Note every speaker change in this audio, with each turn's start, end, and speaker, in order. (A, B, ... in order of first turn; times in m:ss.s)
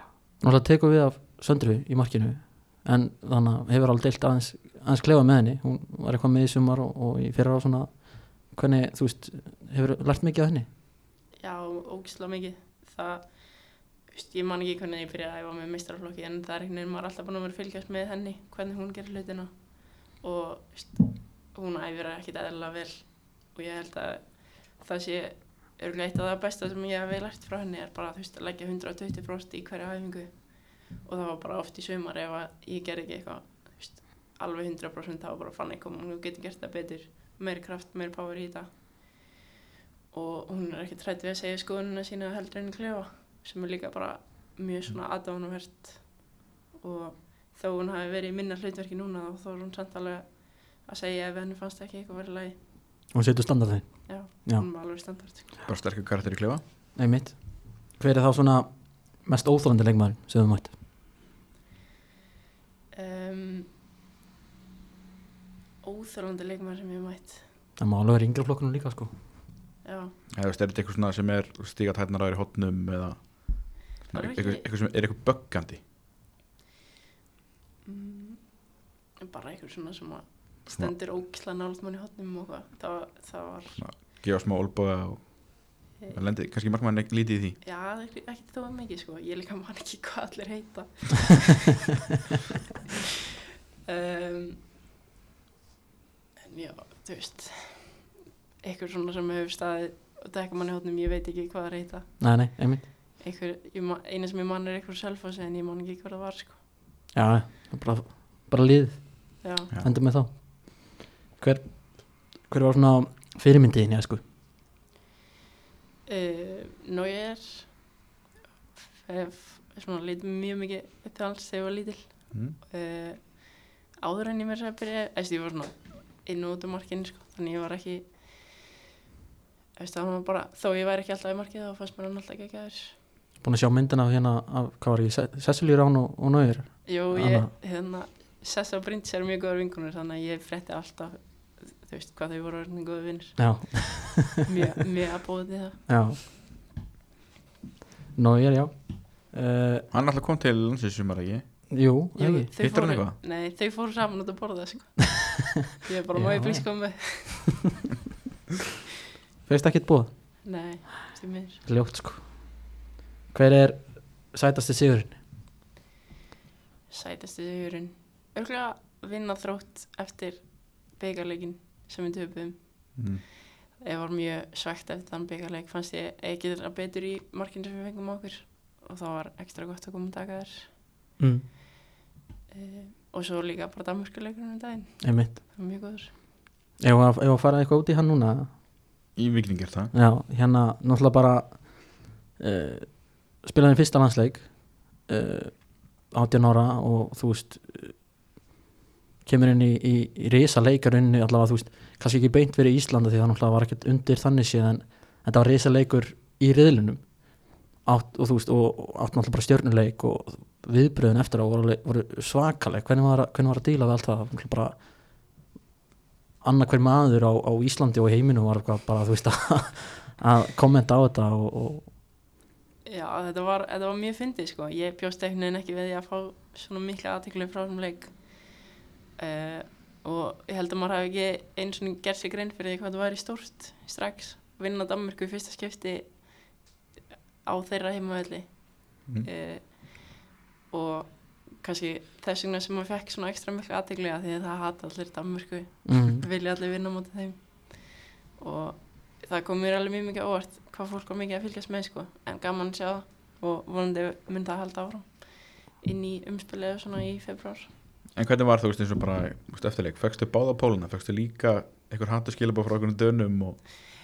0:00.4-0:10.7 A
0:11.4-0:39.0 B
0:40.1-0:52.6 B
0:53.1-0:54.7 A
0:54.1-0:55.5 B
0:55.7-0:56.6 C
0:57.0-1:00.7 A
1:02.9-1:03.7 B
1:05.8-1:07.4 B
1:07.8-1:09.1 A
1:09.8-1:10.2 B
1:10.3-1:15.8 C
1:14.1-1:14.7 B
1:17.8-1:23.8 B
1:20.7-1:21.0 C
1:23.8-1:27.6 C
1:27.6-1:31.9 B
1:33.9-1:34.6 B
1:36.5-1:38.1 B
1:38.6-1:46.6 B
1:42.2-1:42.9 A
1:47.1-1:54.2 A
1:49.4-1:49.7 B
1:56.1-1:57.9 B
1:59.0-2:08.5 B
2:09.8-2:13.0 B
2:13.4-2:17.5 A
2:16.8-2:25.8 B
2:23.4-2:24.4 A
2:25.9-2:26.2 A
2:28.2-2:29.9 A
2:29.9-2:31.6 C
2:31.7-2:32.5 A
2:32.2-2:37.6 B
2:32.6-2:33.2 C
2:36.1-2:37.4 A
2:39.5-2:40.1 A
2:40.4-2:41.6 B
2:41.7-2:42.6 A
2:43.3-2:45.2 A
2:46.9-2:53.2 B
2:53.0-2:53.2 C
2:53.7-3:00.7 B
3:01.2-3:01.4 A
3:02.5-3:06.1 B
3:05.0-3:05.3 A
3:06.8-3:08.5 A
3:09.2-3:09.9 C
3:09.9-3:18.1 A
3:19.2-3:34.8 A
3:36.4-3:41.9 A
3:42.8-3:48.6 B
3:49.2-3:56.7 B
3:57.4-4:17.7 B
4:05.8-4:06.2 A
4:18.2-4:23.6 C